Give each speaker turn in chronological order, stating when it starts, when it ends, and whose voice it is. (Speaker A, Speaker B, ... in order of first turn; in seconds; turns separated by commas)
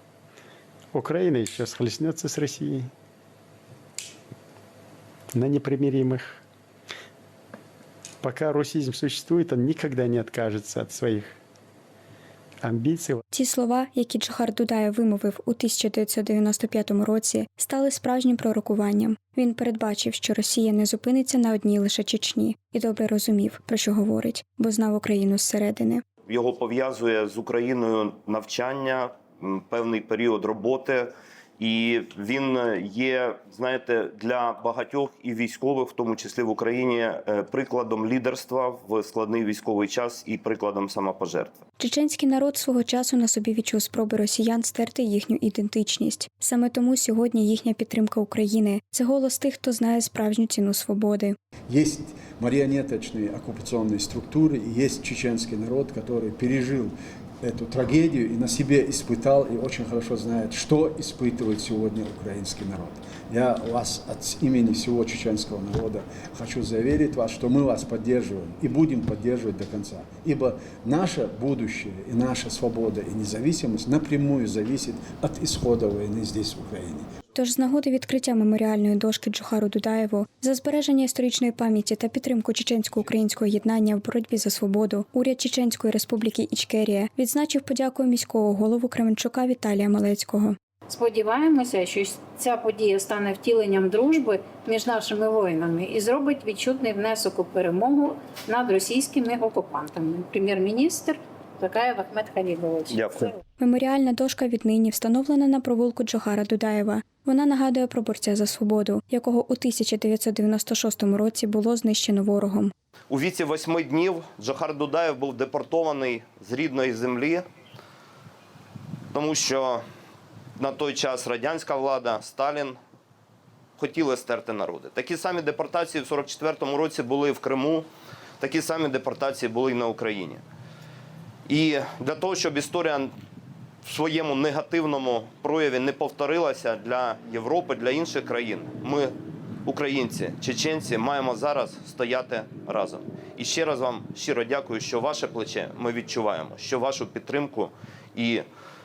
Speaker A: 0.9-2.9, Speaker A: 5.3-6.4, Speaker A: 8.2-11.4, Speaker A: 12.6-13.2, Speaker B: 13.3-26.0, Speaker C: 26.2-41.6, Speaker B: 41.8-51.4, Speaker D: 51.7-77.1, Speaker B: 77.3-90.6, Speaker E: 90.9-103.3, Speaker C: 102.9-103.2, Speaker B: 103.6-112.7, Speaker C: 113.1-117.5, Speaker C: 119.1-119.8, Speaker C: 120.6-122.8, Speaker C: 123.8-127.9, Speaker C: 128.4-130.4, Speaker C: 131.5-133.1, Speaker C: 133.8-139.1, Speaker C: 139.7-148.4